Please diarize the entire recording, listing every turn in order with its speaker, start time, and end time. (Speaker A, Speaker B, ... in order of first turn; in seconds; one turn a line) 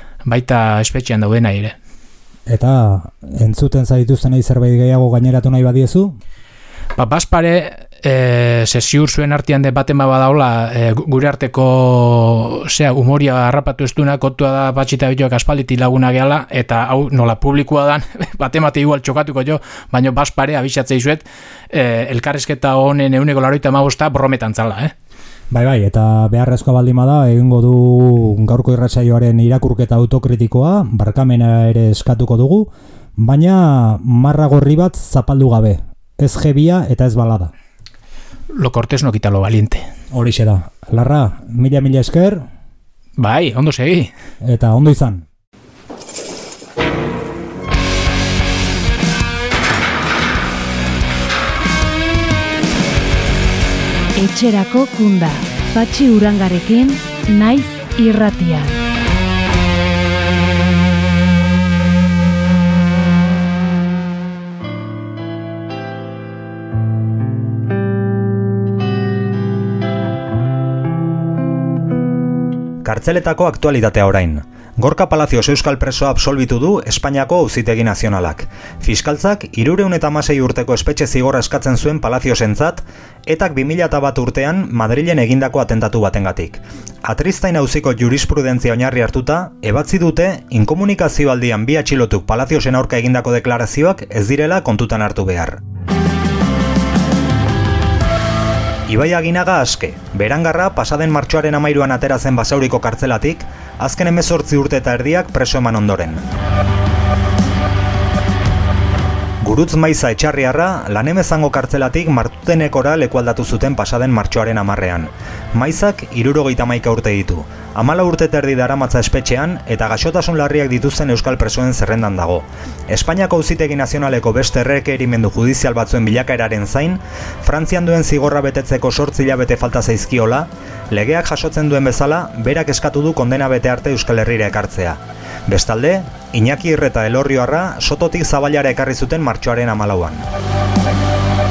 Speaker A: 0.2-1.8
Speaker B: 2.5-6.2
Speaker A: 7.0-24.9
Speaker B: 25.5-37.5
Speaker A: 38.5-39.8
Speaker B: 40.1-42.5
Speaker A: 43.2-44.1
Speaker B: 44.4-45.2
Speaker C: 54.1-58.8
Speaker B: 72.8-95.6
Speaker B: 98.9-106.2
Speaker B: 109.4-140.2